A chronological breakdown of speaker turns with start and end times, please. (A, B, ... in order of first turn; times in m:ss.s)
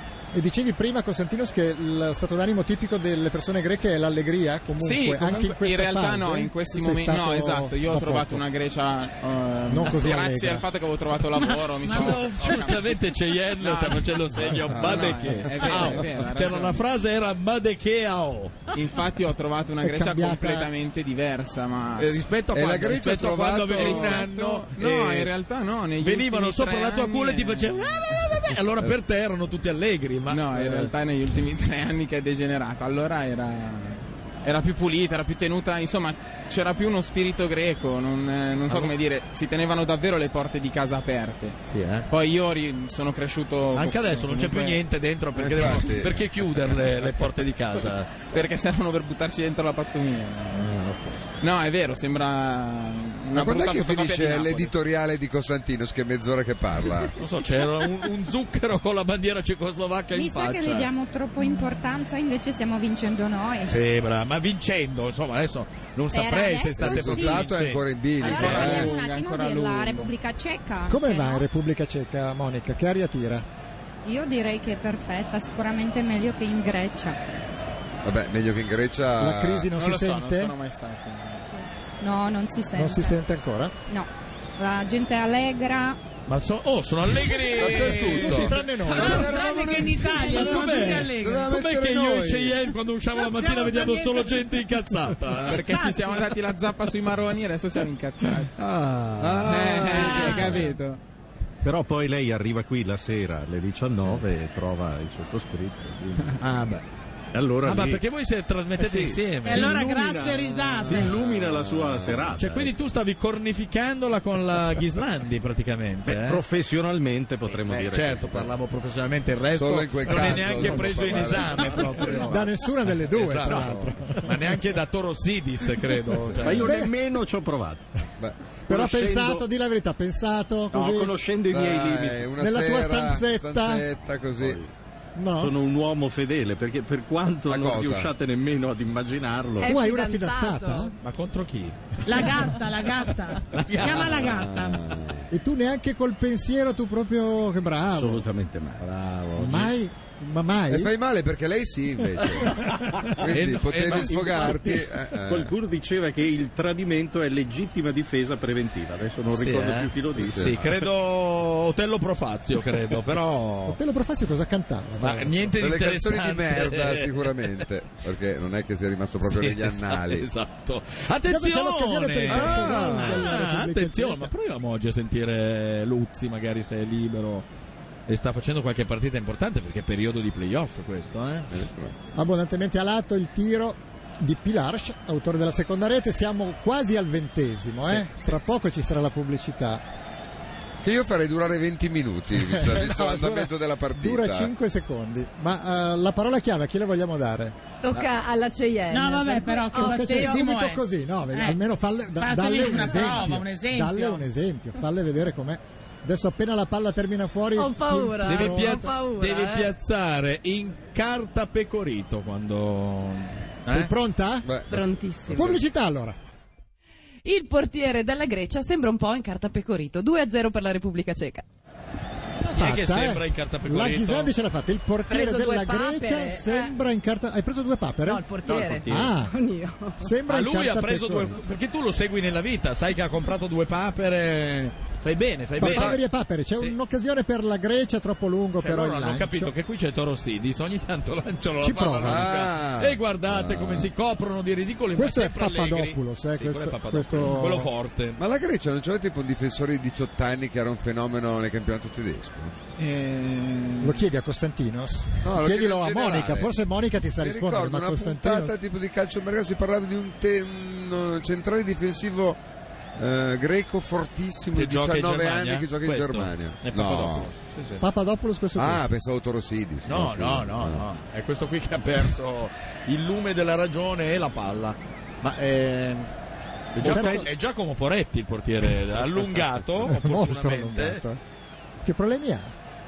0:00.3-0:08.4 A
0:04.8-0:12.9 B
0:09.7-0:10.6 A
0:11.8-0:12.6 C
0:11.8-0:18.7 D
0:13.6-0:16.8 B
0:14.7-0:15.3 E
0:18.7-0:22.2 B
0:19.8-0:20.7 A
0:22.0-0:25.3 D
0:22.5-0:24.2 E
0:23.7-0:28.4 B
0:26.0-0:30.9 D
0:30.3-0:41.6 B
0:41.6-0:42.1 D
0:42.1-0:44.8 B
0:43.7-0:48.2 D
0:45.4-0:46.3 E
0:48.2-0:50.7 B
0:50.6-0:51.2 D
0:51.4-0:54.7 B
0:53.3-0:57.2 E
0:57.2-1:00.9 D
1:00.1-1:03.8 F
1:03.6-1:08.9 D
1:06.1-1:07.5 F
1:06.8-1:08.9 E
1:08.2-1:10.1 B
1:08.2-1:11.4 F
1:10.9-1:13.4 A
1:14.0-1:17.2 F
1:18.0-1:19.7 E
1:19.2-1:20.5 A
1:19.7-1:21.7 B
1:22.0-1:23.2 F
1:22.7-1:23.7 A
1:23.9-1:26.0 F
1:26.3-1:35.7 D
1:27.6-1:32.6 E
1:27.9-1:29.3 A
1:28.9-1:31.5 C
1:33.2-1:34.7 C
1:35.4-1:38.5 B
1:35.6-1:36.2 C
1:38.6-1:40.2 D
1:39.2-1:40.6 E
1:39.4-1:41.0 B
1:40.0-1:40.6 C
1:41.6-1:46.6 G
1:46.4-1:46.8 D
1:47.3-1:48.0 G
1:47.6-1:49.8 D
1:48.8-1:52.7 G
1:49.4-1:51.1 C
1:51.0-1:52.3 E
1:52.4-1:56.4 D
1:56.0-1:58.5 G
1:57.4-2:06.8 D
1:59.5-2:02.3 E
2:00.2-2:01.0 G
2:02.2-2:04.6 A
2:06.3-2:07.8 G
2:06.5-2:06.9 A
2:08.2-2:08.5 E
2:08.7-2:11.2 A
2:08.7-2:09.4 G
2:10.7-2:12.3 G
2:11.5-2:14.6 E
2:12.4-2:13.8 A
2:14.4-2:14.7 G
2:15.2-2:15.5 A
2:15.4-2:19.7 G
2:17.5-2:18.1 E
2:19.6-2:20.9 A
2:19.6-2:20.8 H
2:19.6-2:20.9 I
2:21.0-2:22.4 D
2:22.0-2:24.8 C
2:23.5-2:24.4 D
2:23.8-2:25.3 E
2:25.3-2:28.2 A
2:27.9-2:29.0 G
2:28.8-2:29.7 D
2:29.4-2:30.9 A
2:30.7-2:35.5 E
2:32.4-2:34.8 D
2:33.9-2:40.8 G
2:39.3-2:43.8 D
2:40.2-2:40.6 E
2:43.6-2:45.4 A
2:45.0-2:47.6 D
2:45.6-2:50.3 E
2:49.2-2:57.4 D
2:51.2-2:54.3 A
2:52.3-2:53.3 E
2:58.1-3:01.5 D
3:01.5-3:01.9 E
3:02.1-3:09.8 A
3:07.9-3:08.4 D
3:10.8-3:14.5 E
3:12.3-3:17.6 A
3:17.8-3:20.4 I
3:18.9-3:21.6 C
3:19.7-3:28.9 A
3:22.2-3:24.2 C
3:27.6-3:29.7 I
3:28.2-3:33.9 D
3:33.7-3:34.6 A
3:34.4-3:35.6 E
3:34.7-3:35.5 I
3:35.3-3:36.2 A
3:37.2-3:41.4 H
3:42.4-3:48.3 A
3:42.5-3:44.3 D
3:45.1-3:46.6 I
3:45.1-3:46.6 H
3:48.1-3:49.9 I
3:48.4-3:48.8 H
3:48.4-3:49.2 G
3:48.9-3:49.3 A
3:50.0-3:51.4 A
3:50.3-3:56.0 D
3:55.6-3:59.5 A
3:55.6-3:55.9 E
3:58.6-4:08.2 D
4:01.6-4:02.3 A
4:02.0-4:03.9 E
4:04.9-4:07.7 A
4:08.2-4:12.5 E
4:12.8-4:14.0 B
4:13.8-4:18.5 A
4:15.2-4:16.5 E
4:17.2-4:22.4 E
4:23.0-4:27.3 E
4:24.5-4:27.8 D
4:27.8-4:28.8 A
4:28.6-4:30.8 E
4:29.8-4:36.1 D
4:36.7-4:41.0 D
4:36.8-4:37.3 A
4:39.8-4:41.2 A
4:41.8-4:42.5 A